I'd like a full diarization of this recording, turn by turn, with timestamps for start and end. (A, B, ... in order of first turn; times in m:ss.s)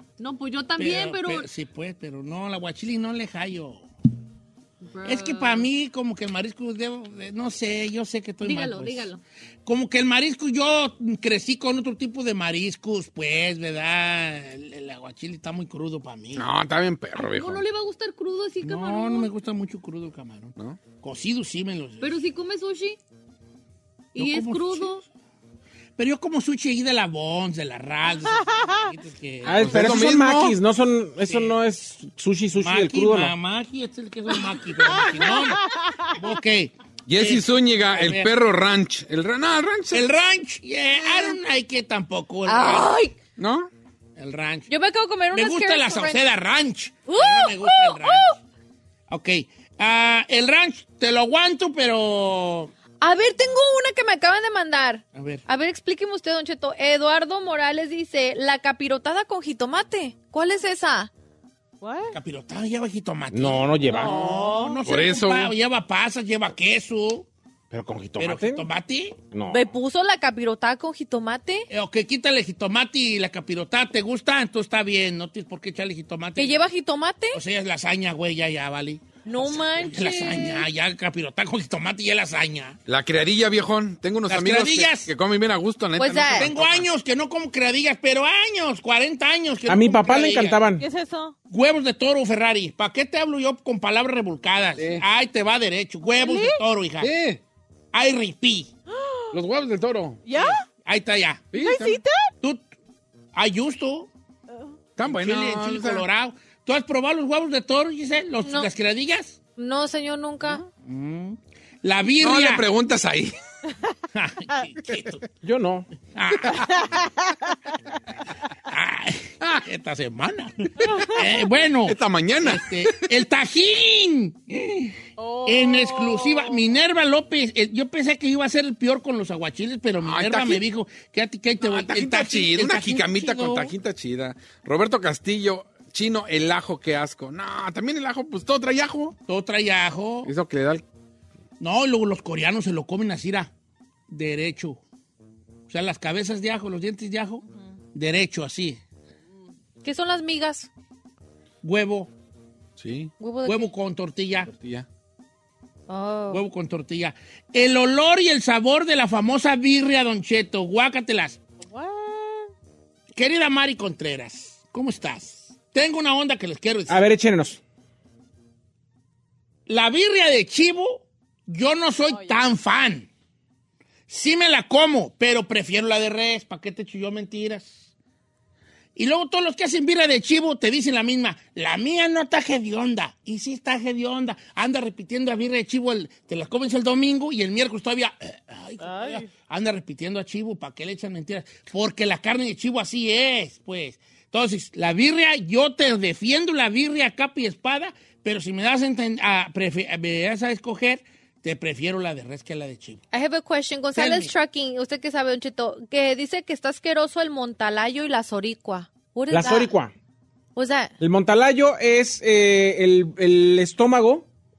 0:00.2-0:01.5 A
0:00.8-0:03.8 B
0:04.8-0:05.7 A
0:05.0-0:09.1 B
0:08.4-0:09.2 A
0:09.6-0:16.4 B
0:16.3-0:17.6 C
0:17.2-0:19.3 A
0:18.6-0:22.2 B
0:22.0-0:23.0 A
0:24.1-0:25.0 A
0:24.2-0:24.9 B
0:26.0-0:30.2 B
0:28.4-0:28.8 D
0:29.4-0:33.3 E
0:29.6-0:30.6 C
0:31.2-0:31.6 B
0:32.6-0:38.3 B
0:35.1-0:36.1 D
0:37.1-0:40.1 C
0:39.9-0:43.0 B
0:41.0-0:41.4 A
0:42.4-0:43.1 A
0:43.4-0:43.7 C
0:44.2-0:44.7 B
0:44.7-0:46.2 A
0:45.3-0:48.4 B
0:47.1-0:48.4 A
0:49.1-0:52.7 B
0:53.0-1:01.1 A
0:55.1-0:55.4 B
1:01.8-1:02.2 D
1:02.1-1:07.3 B
1:03.3-1:04.2 E
1:04.0-1:04.8 D
1:04.0-1:05.5 C
1:07.7-1:08.6 E
1:08.2-1:09.2 B
1:09.3-1:09.6 E
1:09.5-1:11.7 A
1:11.7-1:16.6 B
1:16.4-1:17.4 A
1:17.3-1:22.8 B
1:19.2-1:20.7 A
1:22.9-1:26.9 C
1:24.3-1:25.1 B
1:26.0-1:26.5 A
1:26.3-1:30.6 B
1:29.7-1:30.8 E
1:30.8-1:31.4 D
1:31.5-1:37.1 B
1:34.8-1:35.0 C
1:36.1-1:36.6 D
1:37.0-1:37.4 C
1:37.9-1:38.7 B
1:38.9-1:39.3 D
1:39.3-1:40.2 C
1:40.2-1:40.7 D
1:40.3-1:41.6 B
1:41.5-1:42.0 C
1:41.5-1:42.3 D
1:43.3-1:44.1 B
1:44.5-1:44.8 D
1:45.0-1:46.1 C
1:45.0-1:49.4 B
1:48.4-1:48.7 A
1:49.6-1:50.6 A
1:50.8-1:52.6 B
1:52.2-1:53.3 C
1:54.1-1:55.3 B
1:55.4-1:55.9 E
1:56.1-1:56.8 B
1:56.7-1:57.3 D
1:58.7-2:13.7 B
1:59.4-1:59.6 C
2:01.8-2:03.0 C
2:05.2-2:06.6 D
2:10.0-2:10.6 C
2:11.6-2:19.2 C
2:19.3-2:20.3 B
2:20.2-2:20.8 C
2:21.6-2:23.5 B
2:24.1-2:24.8 B
2:25.7-2:27.4 B
2:27.9-2:28.8 B
2:29.8-2:30.7 A
2:31.6-2:32.1 B
2:32.8-2:33.1 C
2:33.2-2:33.7 A
2:33.4-2:34.5 B
2:34.5-2:34.8 C
2:35.9-2:36.4 A
2:36.3-2:41.4 B
2:41.6-2:42.5 D
2:43.1-2:47.0 B
2:46.9-2:47.6 E
2:49.7-2:53.1 B
2:52.0-2:52.4 D
2:54.1-2:57.9 B
2:59.0-3:23.0 B
3:08.8-3:09.3 D
3:23.1-3:29.7 A
3:24.0-3:24.3 B
3:29.3-3:29.9 E
3:30.6-3:30.9 A
3:31.0-3:34.2 E